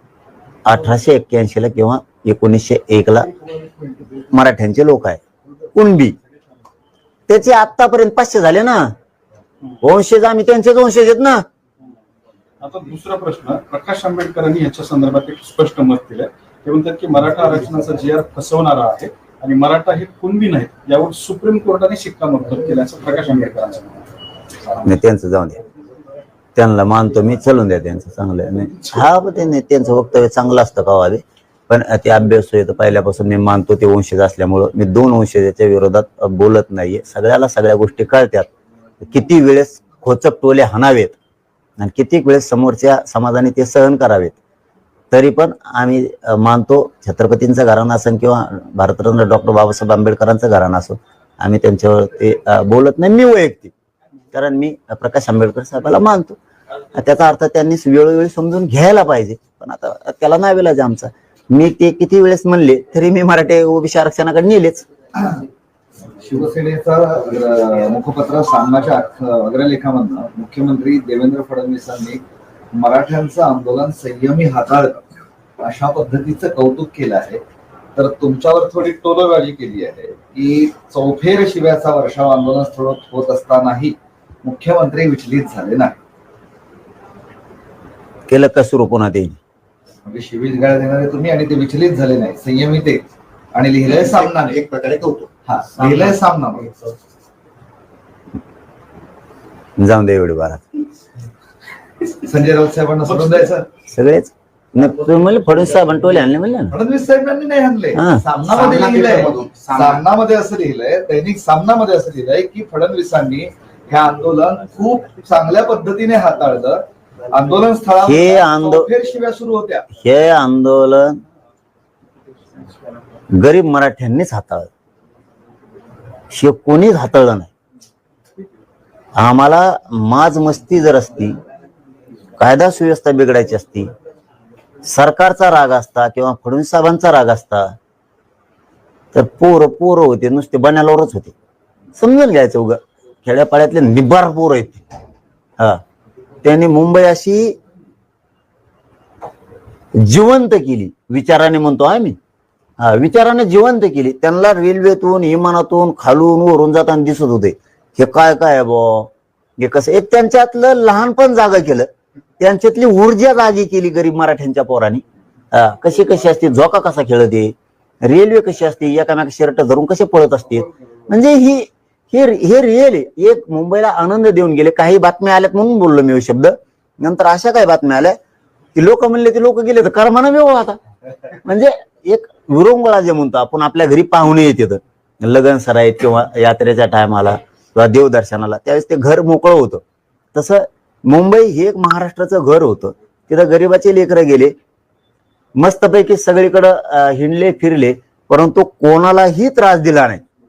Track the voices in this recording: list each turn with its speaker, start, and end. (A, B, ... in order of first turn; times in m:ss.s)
0:00.6-0:03.3 A
0:04.1-0:05.2 A
0:05.7-0:06.1 A
0:07.3-0:08.9 A
0:09.8-0:11.4 A
0:12.6-0:24.0 B
0:24.8-0:25.6 A
0:26.6-0:38.5 A
0:39.0-0:41.1 A
0:41.8-0:44.4 A
0:45.1-0:53.7 A
0:54.3-0:56.4 A
0:56.9-1:04.9 A
1:05.2-1:05.4 C
1:06.2-1:17.4 C
1:17.9-1:26.0 C
1:28.3-1:29.4 A
1:30.0-1:34.6 C
1:33.9-1:35.3 D
1:35.4-1:36.7 C
1:39.8-1:40.6 A
1:42.2-1:43.7 C
1:43.9-1:46.7 A
1:46.7-1:59.9 C
1:48.0-1:48.2 A
1:48.5-1:50.0 D
1:58.0-1:58.9 A
1:59.9-2:01.2 A
2:03.3-2:04.7 A
2:06.3-2:07.5 A
2:09.2-2:11.4 A
2:12.4-2:13.9 A
2:14.8-2:17.7 A
2:19.1-2:21.3 A
2:22.0-2:24.8 A
2:26.4-2:27.5 A
2:29.9-2:32.2 A
2:32.8-2:58.2 A
2:58.7-3:00.8 A
3:01.4-3:09.8 A
3:10.3-3:14.5 A
3:15.6-3:20.2 A